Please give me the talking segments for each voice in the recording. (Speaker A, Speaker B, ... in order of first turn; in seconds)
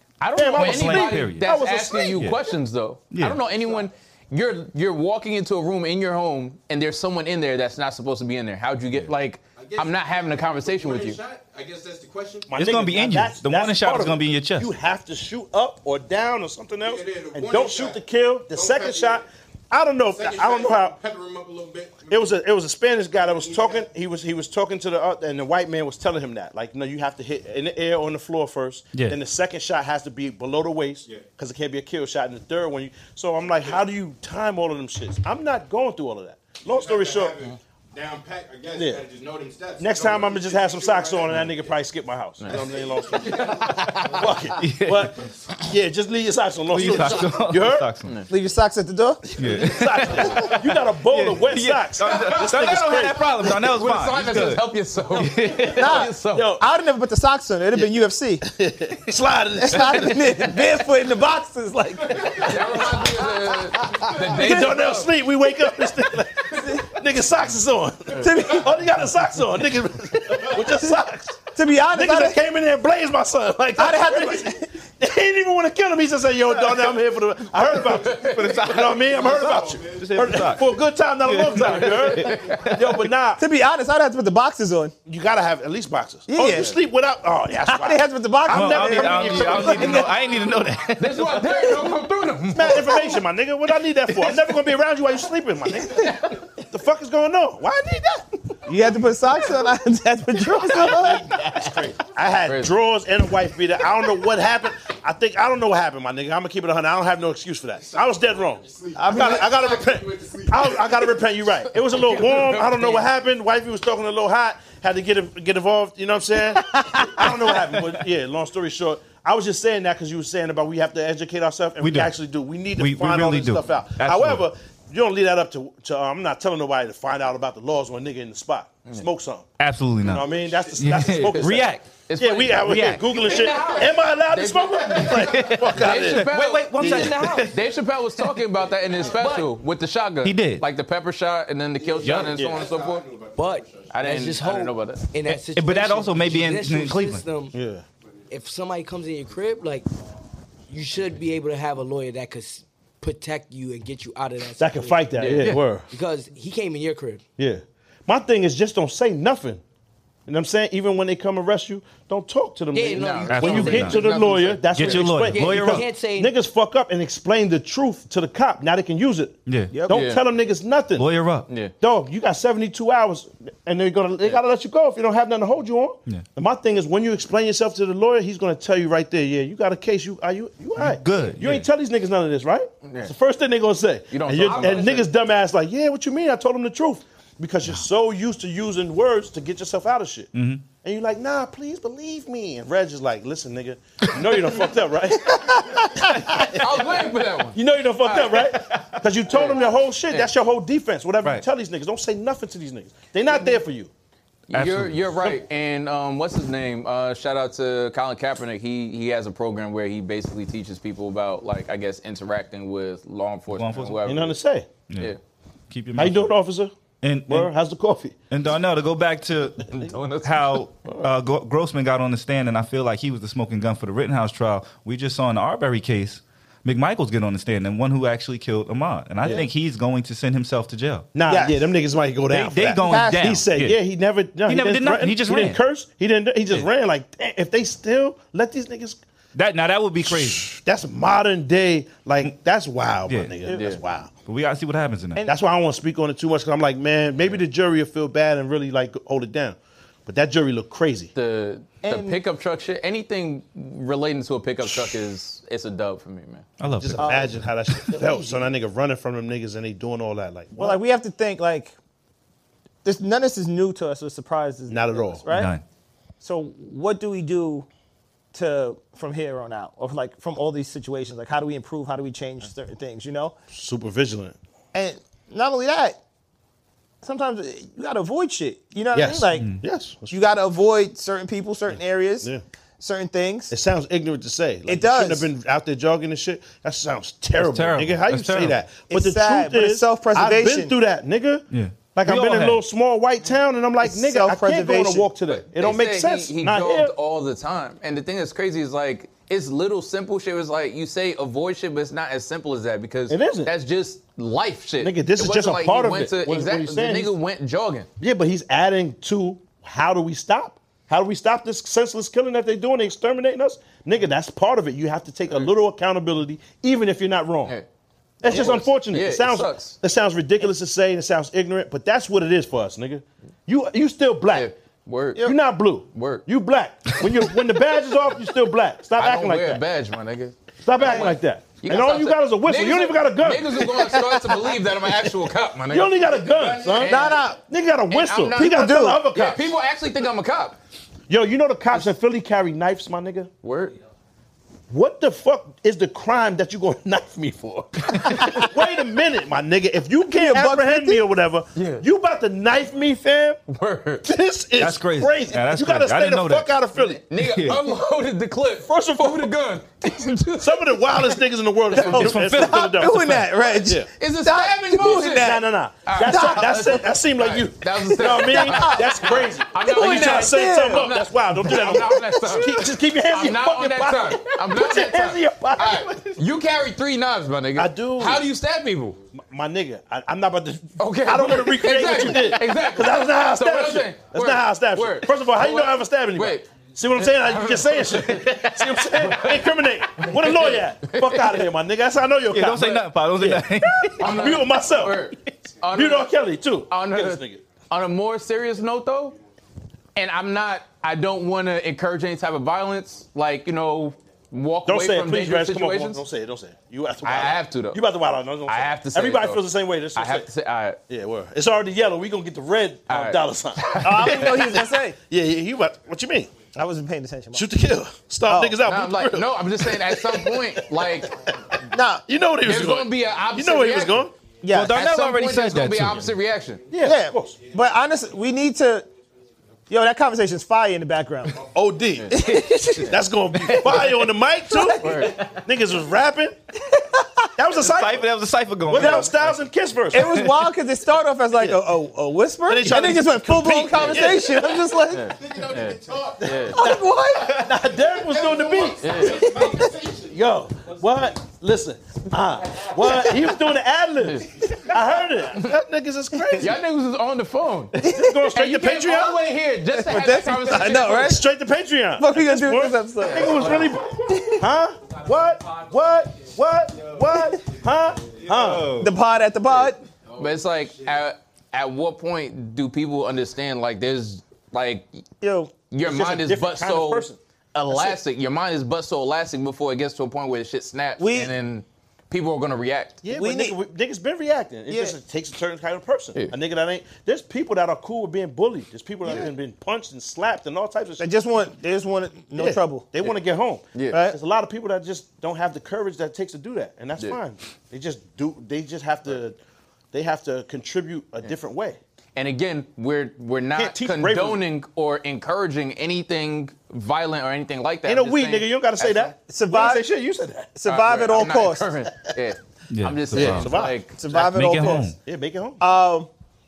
Speaker A: 0.2-11.2, 53.6-56.5, 62.3-65.1, 77.9-78.6, 81.7-82.6, 91.0-93.0, 102.5-102.7, 111.9-113.0, 131.3-143.0, 143.9-145.1, 155.2-155.6, 162.9-165.1, 169.9-170.2, 182.8-183.1, 184.1-185.1, 196.5-198.5, 199.3-200.3, 204.5-214.3, 219.7-220.7, 243.5-243.8, 251.1-256.5, 295.5-307.9, 318.2-319.8, 324.3-325.4, 325.9-326.2, 329.0-337.3, 337.9-340.6, 343.4-343.8, 351.6-351.8, 353.5-354.1, 357.1-361.1, 364.0-379.0, 380.8-391.5, 394.0-396.1, 396.7-399.1, 399.9-406.0, 407.0-407.8, 408.5-409.4, 409.9-410.8, 412.9-414.5, 418.6-421.1, 422.4-424.1, 424.6-426.6, 432.0-432.8, 434.8-435.2, 444.9-446.6, 448.8-449.4, 454.0-454.3, 456.4-457.8, 458.3-461.1, 463.0-463.8, 470.2-474.9, 475.7-483.0, 502.1-509.1, 510.6-514.0
Speaker B: 0.3-2.4, 12.5-20.9, 22.1-37.4, 38.7-39.0, 39.8-47.9, 49.4-53.5, 56.3-56.6, 58.4-60.4, 64.1-83.4, 85.0-90.1, 92.5-98.3, 100.5-129.5, 130.0-137.2, 142.3-142.7, 147.5-147.8, 154.6-155.9, 157.4-159.6, 160.3-171.1, 171.8-203.9, 214.1-214.7, 215.9-216.7, 217.3-218.2, 231.1-239.0, 240.0-244.1, 245.2-251.1, 254.6-255.0, 256.8-260.8, 264.7-265.2, 273.5-274.4, 278.9-280.2, 283.5-296.9, 303.1-303.5, 304.8-307.1, 308.0-317.6, 318.2-324.5, 325.1-329.6, 330.6-333.7, 335.7-339.5, 341.1-343.3, 344.7-353.4, 354.0-357.0, 358.6-359.3, 360.4-363.9, 364.9-376.2, 377.6-378.3, 379.3-395.1, 395.7-397.4, 404.6-410.3, 410.9-416.3, 417.3-421.4, 422.1-424.1, 426.7-427.4, 431.3-432.3, 432.9-436.3, 437.4-438.1, 438.7-440.2, 441.4-441.6, 442.4-444.4, 446.3-449.2, 450.0-456.6, 457.8-459.2, 460.5-468.7, 475.8-477.2, 477.7-478.0, 483.0-491.1, 492.3-499.4, 499.9-501.8, 503.5-504.4, 507.8-510.6, 513.1-513.8, 514.6-515.6
Speaker C: 0.5-1.5, 3.1-3.4, 12.6-14.7, 43.8-45.2, 46.7-48.1, 49.4-56.0, 78.2-78.9, 79.9-80.7, 81.2-83.0, 88.5-91.5, 121.8-122.1, 122.8-124.5, 129.6-130.2, 130.8-131.9, 132.6-133.1, 135.2-137.6, 140.2-140.6, 142.0-142.3, 145.3-147.2, 163.3-164.0, 164.7-165.9, 169.4-169.8, 171.0-171.5, 180.8-181.7, 190.3-190.6, 204.5-205.0, 213.5-214.0, 214.9-215.1, 215.7-216.3, 217.0-217.5, 218.3-231.1, 232.3-233.8, 234.5-235.6, 239.3-240.5, 243.1-243.3, 244.2-245.2, 256.6-257.3, 265.3-265.6, 279.4-279.6, 287.4-288.6, 291.5-292.6, 354.6-356.5, 357.2-357.6, 361.8-363.3, 392.3-394.2, 424.5-426.1, 437.6-439.1, 440.1-440.4, 468.3-468.9, 512.7-513.5, 514.1-515.0
Speaker D: 9.6-12.5, 16.8-19.3, 20.1-22.4, 23.2-23.9, 36.6-41.7, 42.5-44.5, 52.0-52.7, 78.4-80.6, 82.3-82.6, 90.1-90.7, 107.8-111.2, 130.1-130.9, 133.3-133.7, 138.8-139.3, 141.8-144.1, 336.3-336.9, 445.1-446.6, 447.6-450.2, 470.2-471.1
Speaker E: 48.3-49.2, 55.7-58.4, 59.6-62.7, 64.3-64.7, 66.5-66.8, 68.2-68.7, 71.5-72.4, 73.8-74.7, 83.4-84.9, 86.3-86.7, 87.5-90.1, 98.7-101.7, 109.0-109.4, 169.7-170.0, 231.3-231.6, 232.8-233.3, 251.8-252.2, 257.0-257.3, 260.6-261.7, 262.8-265.5, 266.2-267.7, 268.3-273.3, 274.7-276.0, 277.0-279.5, 280.1-283.5, 284.7-285.3, 288.9-290.7, 293.8-295.1, 333.8-334.2, 336.8-337.4, 338.3-339.0, 350.1-351.0, 361.7-366.9, 368.1-370.9, 371.4-372.1, 413.8-415.0, 416.5-417.5, 418.2-418.6, 421.7-422.0, 424.4-424.9, 426.8-428.9, 429.7-431.4, 432.1-433.9, 434.5-435.1, 436.7-437.3, 438.7-439.1, 439.9-445.1, 446.5-447.5, 449.2-449.7, 457.8-458.3, 459.7-461.2, 462.0-464.4, 468.8-469.8, 475.2-475.5, 481.0-481.3, 483.1-483.6, 484.7-484.9, 491.0-492.9, 493.9-494.2, 509.3-509.9, 510.5-511.8, 513.9-514.9, 515.6-516.1
Speaker F: 136.8-137.5, 139.1-139.5, 143.3-147.6, 148.3-149.9, 150.7-155.3, 155.9-157.2, 162.7-164.2, 164.8-166.3